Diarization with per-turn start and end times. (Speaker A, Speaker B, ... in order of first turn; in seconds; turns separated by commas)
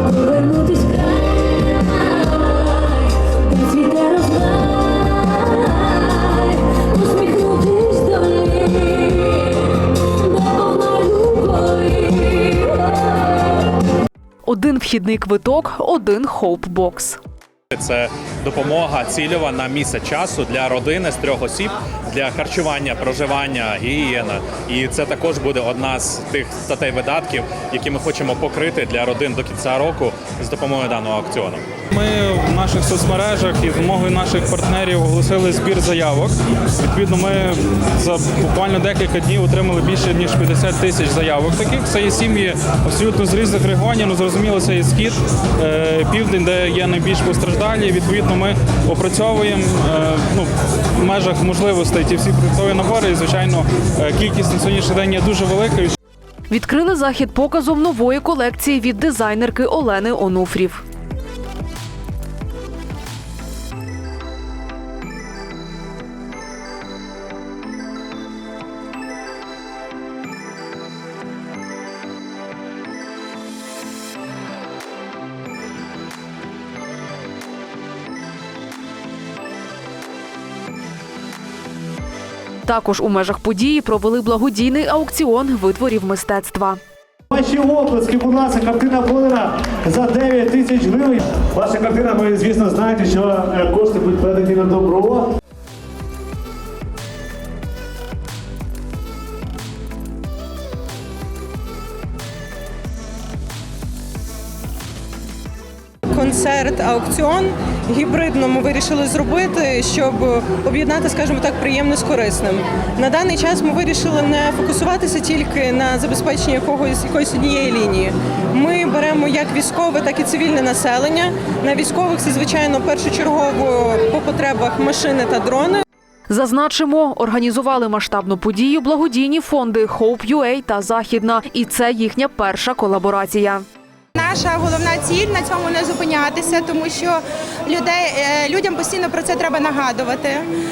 Speaker A: 0.3-1.0, Speaker A: 3.3-4.5, Speaker A: 7.1-8.3, Speaker A: 10.7-11.6, Speaker A: 14.4-17.2, Speaker B: 17.7-31.6, Speaker C: 31.9-56.0, Speaker A: 56.5-60.8, Speaker A: 82.7-86.8, Speaker D: 87.3-95.3, Speaker E: 106.1-125.8, Speaker A: 126.3-133.6, Speaker F: 134.2-140.5